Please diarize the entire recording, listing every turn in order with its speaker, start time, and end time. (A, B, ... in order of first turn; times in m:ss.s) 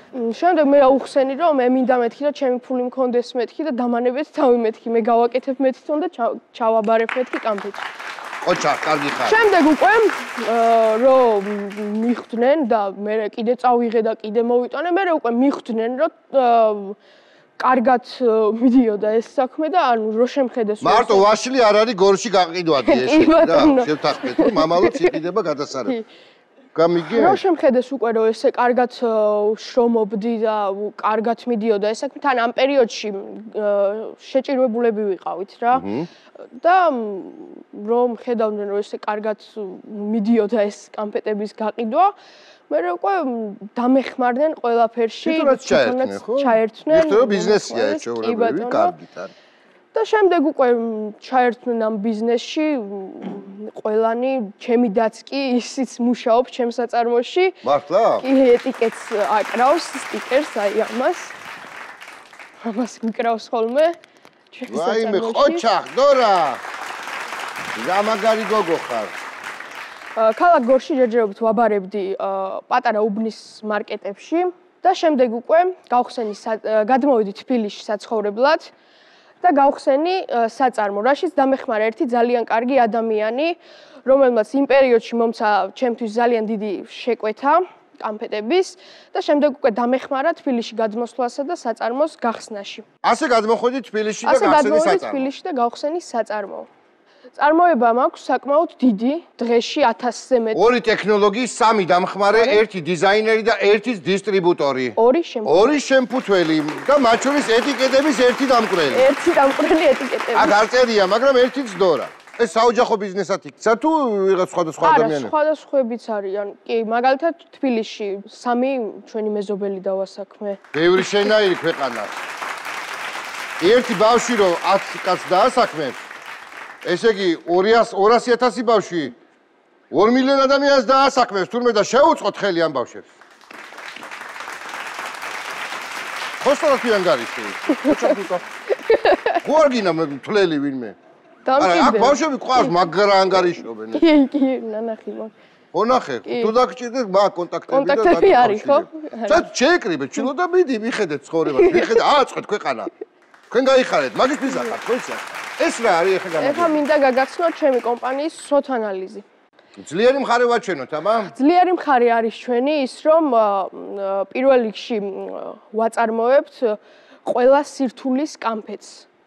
0:00.1-0:07.9 A
0:08.4-0:09.4 B
0:09.2-0:17.0 A
0:17.6-0:21.3 A
0:20.8-0:26.0 B
0:22.8-0:25.2 A
0:26.8-0:27.4 B
0:27.1-0:35.9 A
0:35.7-0:36.1 B
0:36.6-0:42.2 A
0:42.7-0:49.0 A
0:45.2-0:49.3 B
0:49.9-0:57.6 A
0:57.6-0:58.3 B
0:58.2-1:01.3 A
1:02.6-1:04.0 A
1:04.5-1:05.7 A
1:04.7-1:06.6 B
1:07.8-1:09.1 B
1:10.2-1:18.7 A
1:19.4-1:32.8 A
1:33.0-1:35.3 B
1:34.2-1:36.7 A
1:37.4-1:40.6 A
1:40.5-1:49.1 B
1:42.3-1:42.6 A
1:45.0-1:45.6 A
1:48.9-1:50.6 A
1:50.3-1:55.3 B
1:54.8-2:01.3 A
2:00.7-2:02.2 B
2:03.6-2:06.1 B
2:06.8-2:09.2 B
2:09.9-2:13.1 B
2:16.4-2:18.4 B
2:17.8-2:18.2 A
2:18.8-2:19.4 A
2:19.4-2:21.0 B
2:21.4-2:22.9 A
2:21.6-2:24.1 B
2:23.9-2:25.3 A
2:25.7-2:32.9 B
2:26.3-2:26.5 A
2:27.7-2:29.5 A
2:31.5-2:32.0 A
2:33.5-2:36.8 B
2:36.4-2:39.2 A
2:39.8-2:41.3 B
2:41.2-2:49.1 A